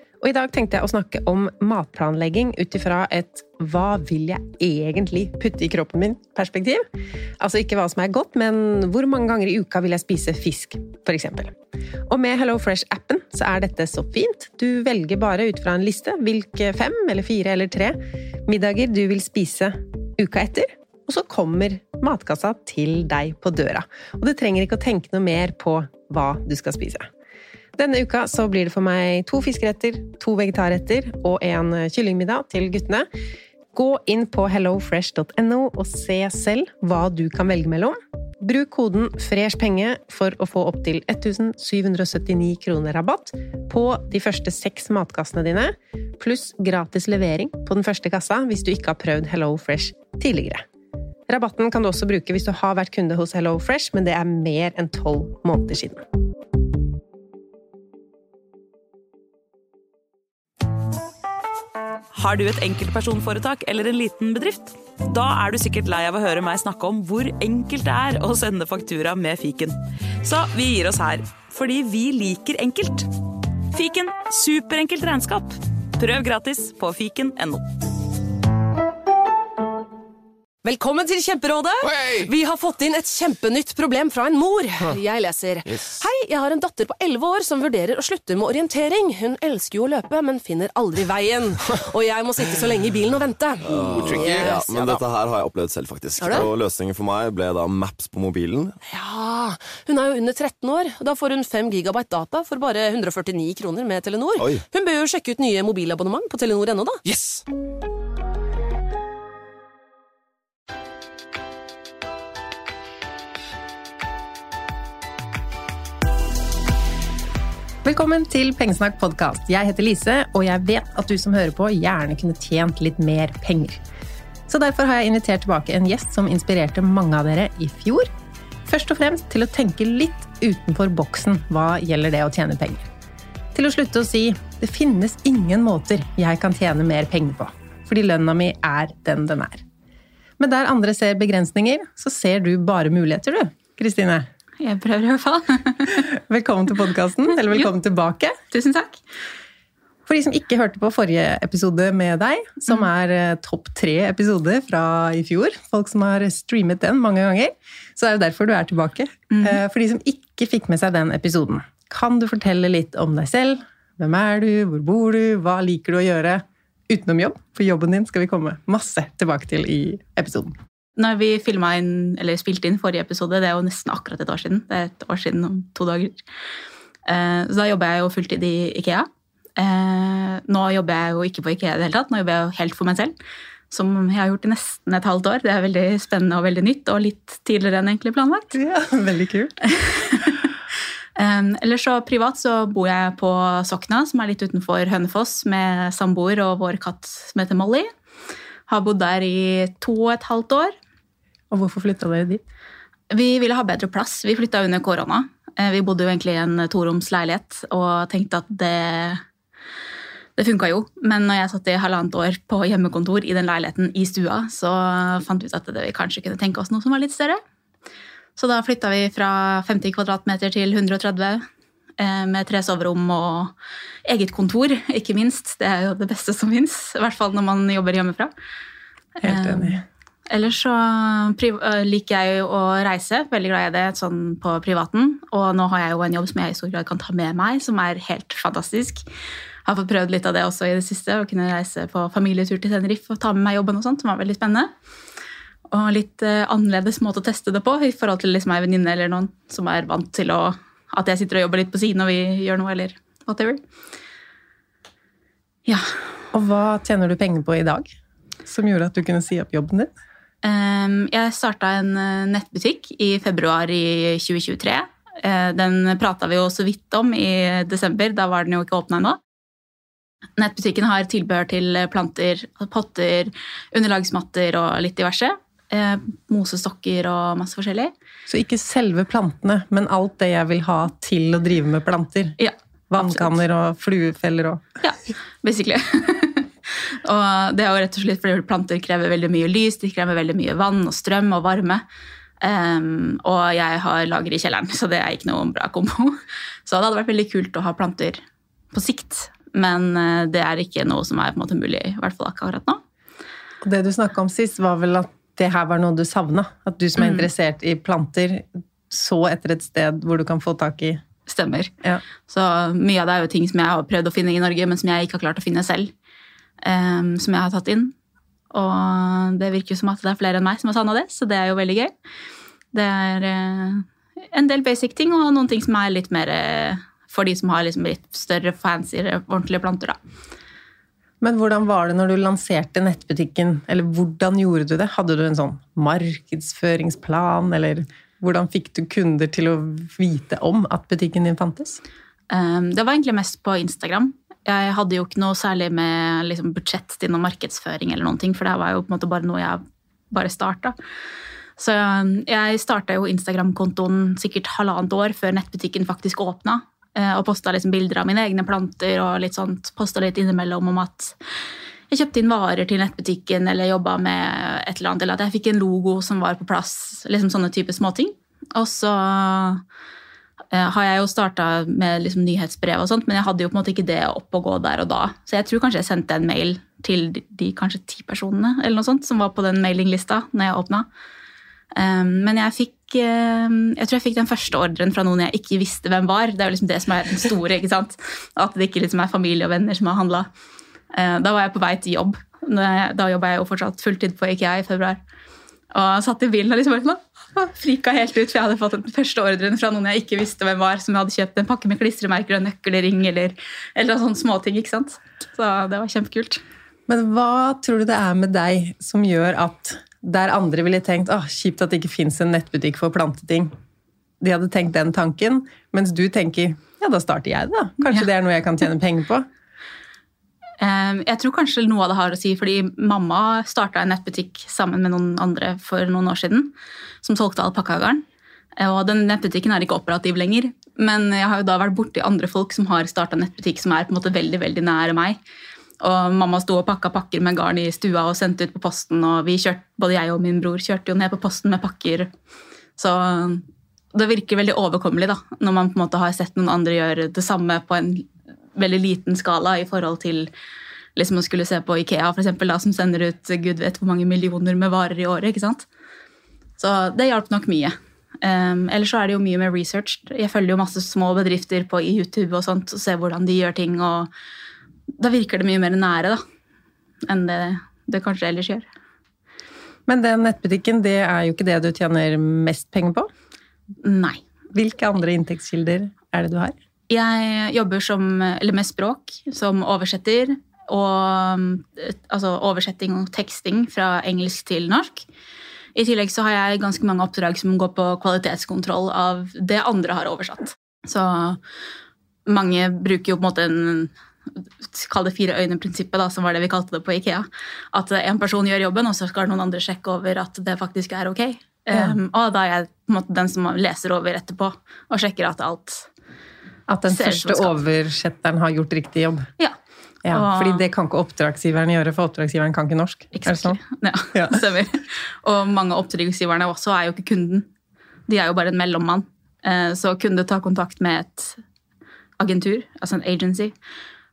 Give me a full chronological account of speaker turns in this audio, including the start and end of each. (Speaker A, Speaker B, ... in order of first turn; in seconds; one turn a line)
Speaker A: 0.2-6.8
Speaker A: 7.4-11.6
Speaker A: 12.1-27.1
Speaker A: 27.8-33.1
Speaker A: 33.7-50.6
Speaker A: 51.3-56.0
Speaker B: 62.1-73.1
Speaker B: 73.7-77.7
Speaker C: 80.6-95.0
Speaker D: 93.6-98.8
Speaker C: 96.2-96.5
Speaker C: 98.9-107.1
Speaker D: 107.1-107.4
Speaker A: 117.8-123.8
Speaker A: 124.5-128.1
Speaker A: 128.7-132.9
Speaker A: 133.5-139.6
Speaker A: 140.4-144.3
Speaker E: 144.6-146.1
Speaker A: 145.9-148.3
Speaker E: 148.5-149.0
Speaker A: 150.1-170.6
Speaker E: 159.3-159.6
Speaker E: 171.0-176.2
Speaker E: 177.1-183.1
Speaker E: 183.7-188.5
Speaker A: 188.5-189.6
Speaker E: 189.7-190.5
Speaker E: 191.2-197.9
Speaker E: 198.7-200.7
Speaker A: 201.5-202.4
Speaker E: 203.1-209.2
Speaker E: 210.4-217.4
Speaker E: 218.4-221.4
Speaker E: 222.0-223.5
Speaker E: 224.1-228.3
Speaker E: 229.2-239.0
Speaker A: 229.2-229.8
Speaker E: 239.7-244.7
Speaker E: 245.7-253.6
Speaker E: 255.7-256.0
Speaker A: 256.3-257.9
Speaker A: 258.5-259.9
Speaker E: 260.4-269.2
Speaker E: 270.4-277.9
Speaker A: 278.3-282.4
Speaker E: 282.4-283.4
Speaker A: 282.9-284.6
Speaker E: 284.8-291.8
Speaker E: 292.4-298.2
Speaker E: 298.7-302.8
Speaker A: 303.6-311.0
Speaker E: 307.0-307.3
Speaker E: 311.3-311.7
Speaker E: 312.3-315.9
Speaker E: 316.6-317.9
Speaker E: 318.5-321.9
Speaker E: 322.7-330.0
Speaker A: 331.2-341.8
Speaker E: 342.3-350.8
Speaker E: 351.6-361.2
Speaker E: 361.9-369.6
Speaker E: 370.5-380.9
Speaker E: 381.7-390.3
Speaker E: 390.9-395.0
Speaker E: 395.7-406.4
Speaker A: 406.9-413.5
Speaker A: 414.2-419.3
Speaker E: 420.6-428.0
Speaker E: 428.6-435.2
Speaker E: 435.8-442.1
Speaker E: 442.8-450.3
Speaker E: 451.0-455.7
Speaker E: 456.6-464.1
Speaker E: 465.0-466.2
Speaker E: 467.1-468.7
Speaker A: 469.9-473.1
Speaker E: 473.8-474.2
Speaker A: 474.5-476.6
Speaker E: 476.9-485.1
Speaker E: 485.8-491.4
Speaker E: 492.3-505.9
Speaker A: 506.7-509.3
Speaker E: 506.9-507.6
Speaker A: 510.1-513.6
Speaker E: 510.1-510.7
Speaker E: 513.1-517.5
Speaker A: 514.1-514.4
Speaker E: 518.1-521.4
Speaker E: 522.2-523.5